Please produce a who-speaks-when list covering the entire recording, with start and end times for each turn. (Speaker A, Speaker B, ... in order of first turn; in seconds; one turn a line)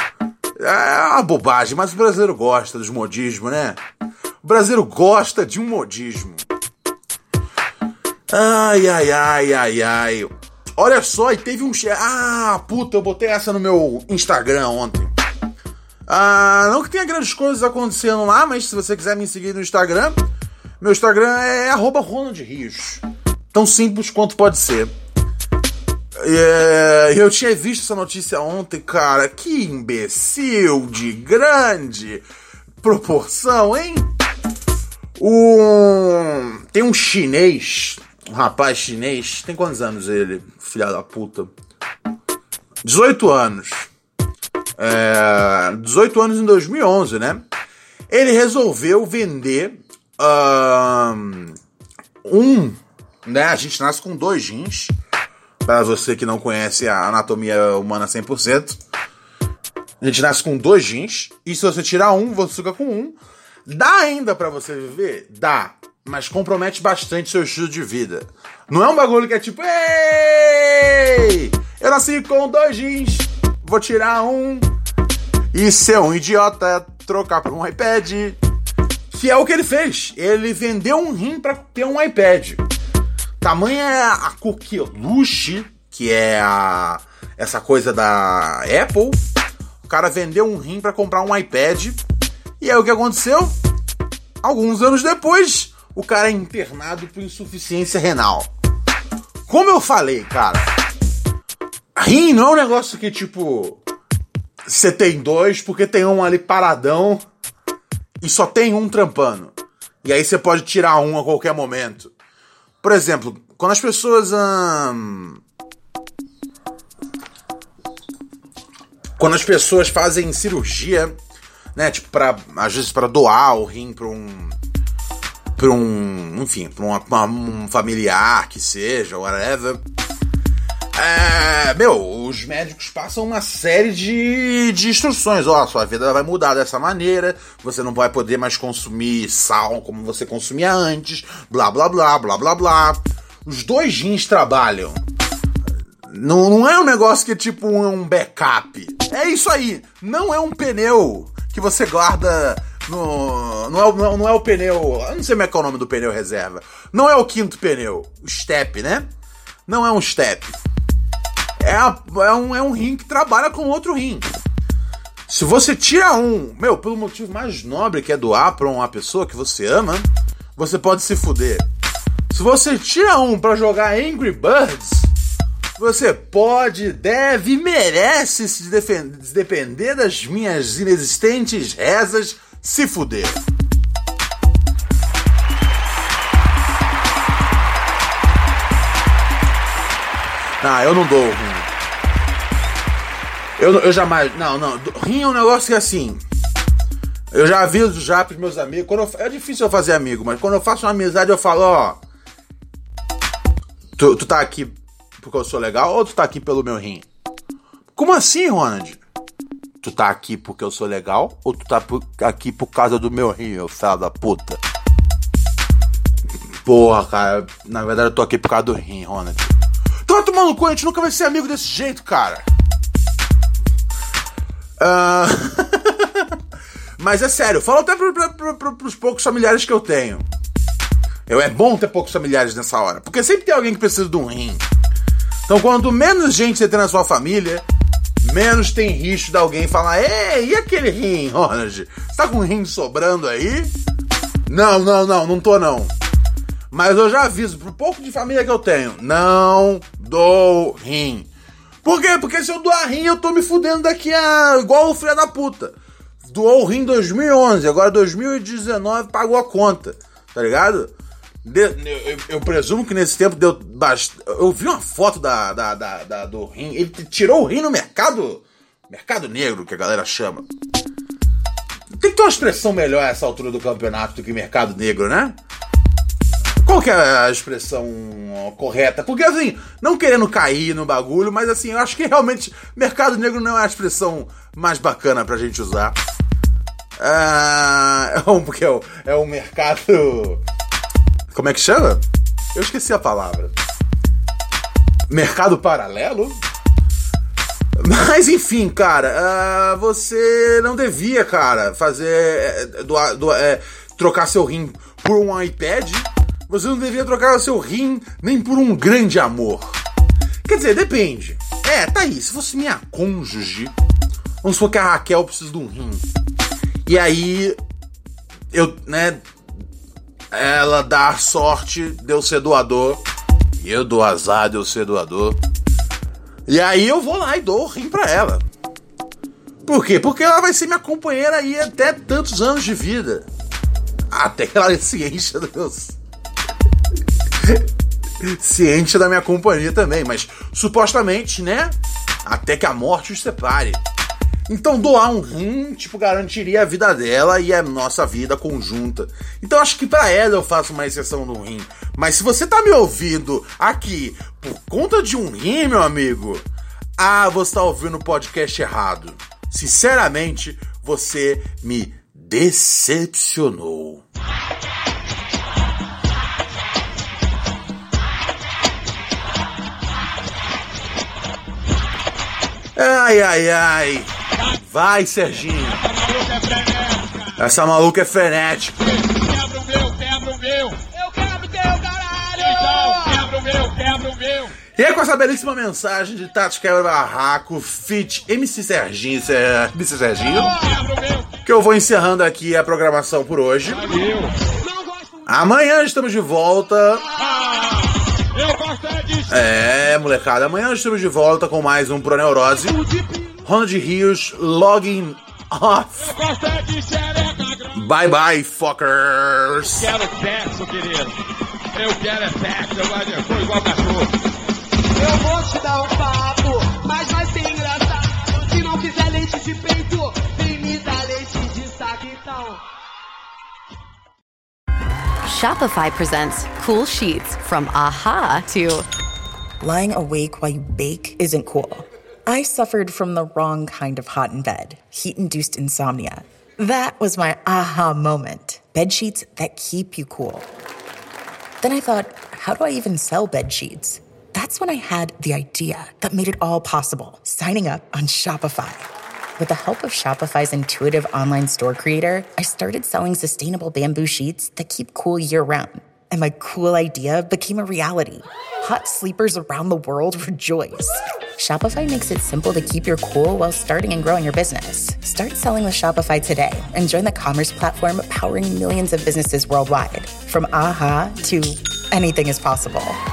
Speaker A: 0.6-3.8
Speaker A: 4.4-6.4
Speaker A: 8.3-15.1
Speaker A: 16.1-20.1
Speaker A: 20.8-23.0
Speaker A: 23.5-24.9
Speaker A: 26.2-32.2
Speaker A: 32.8-34.1
Speaker A: 35.2-41.5
Speaker A: 42.8-43.9
Speaker A: 44.8-47.4
Speaker A: 48.1-51.6
Speaker A: 52.2-54.9
Speaker A: 55.6-58.8
Speaker A: 60.0-74.7
Speaker A: 75.5-78.4
Speaker A: 79.1-82.6
Speaker A: 83.4-89.2
Speaker A: 89.8-92.0
Speaker A: 92.6-93.6
Speaker A: 94.4-98.5
Speaker A: 99.5-100.7
Speaker A: 102.0-103.8
Speaker A: 104.7-107.2
Speaker A: 108.2-112.1
Speaker A: 112.8-115.4
Speaker A: 119.2-121.1
Speaker A: 121.7-124.5
Speaker A: 125.6-129.8
Speaker A: 130.9-145.0
Speaker A: 146.1-159.1
Speaker A: 159.7-160.6
Speaker A: 161.6-164.3
Speaker A: 165.3-171.6
Speaker A: 172.3-175.1
Speaker A: 175.8-183.4
Speaker A: 190.6-191.7
Speaker A: 193.6-196.2
Speaker A: 197.3-202.0
Speaker A: 204.0-207.1
Speaker A: 207.9-209.0
Speaker A: 209.8-214.6
Speaker A: 216.6-219.5
Speaker A: 220.1-222.4
Speaker A: 224.8-226.3
Speaker A: 227.0-230.3
Speaker A: 231.3-234.6
Speaker A: 235.5-237.6
Speaker A: 238.2-243.7
Speaker A: 244.5-245.9
Speaker A: 246.7-251.3
Speaker A: 251.8-260.9
Speaker A: 261.4-270.4
Speaker A: 271.9-275.4
Speaker A: 276.6-285.9
Speaker A: 287.0-290.4
Speaker A: 291.3-292.0
Speaker A: 292.5-293.5
Speaker A: 295.1-296.4
Speaker A: 297.8-309.8
Speaker A: 310.4-313.7
Speaker A: 314.4-316.0
Speaker A: 316.9-317.6
Speaker A: 318.5-319.2
Speaker A: 320.3-323.0
Speaker A: 323.6-325.4
Speaker A: 326.5-328.4
Speaker A: 329.6-333.3
Speaker A: 334.1-336.0
Speaker A: 338.2-343.8
Speaker A: 344.5-356.4
Speaker A: 357.0-364.0
Speaker A: 372.8-375.8
Speaker B: 375.6-377.3
Speaker A: 377.4-378.8
Speaker B: 378.8-380.8
Speaker C: 380.9-383.2
Speaker B: 382.4-384.5
Speaker A: 384.8-390.5
Speaker B: 390.3-391.4
Speaker A: 391.4-393.9
Speaker B: 393.7-394.4
Speaker C: 394.6-395.2
Speaker A: 395.2-397.1
Speaker B: 397.2-399.4
Speaker A: 399.3-402.8
Speaker C: 402.8-403.2
Speaker A: 403.4-406.1
Speaker B: 406.0-407.9
Speaker A: 407.7-409.9
Speaker B: 409.8-411.1
Speaker B: 411.7-414.1
Speaker C: 414.9-422.6
Speaker D: 425.2-428.9
Speaker E: 429.6-440.5
Speaker E: 441.6-473.0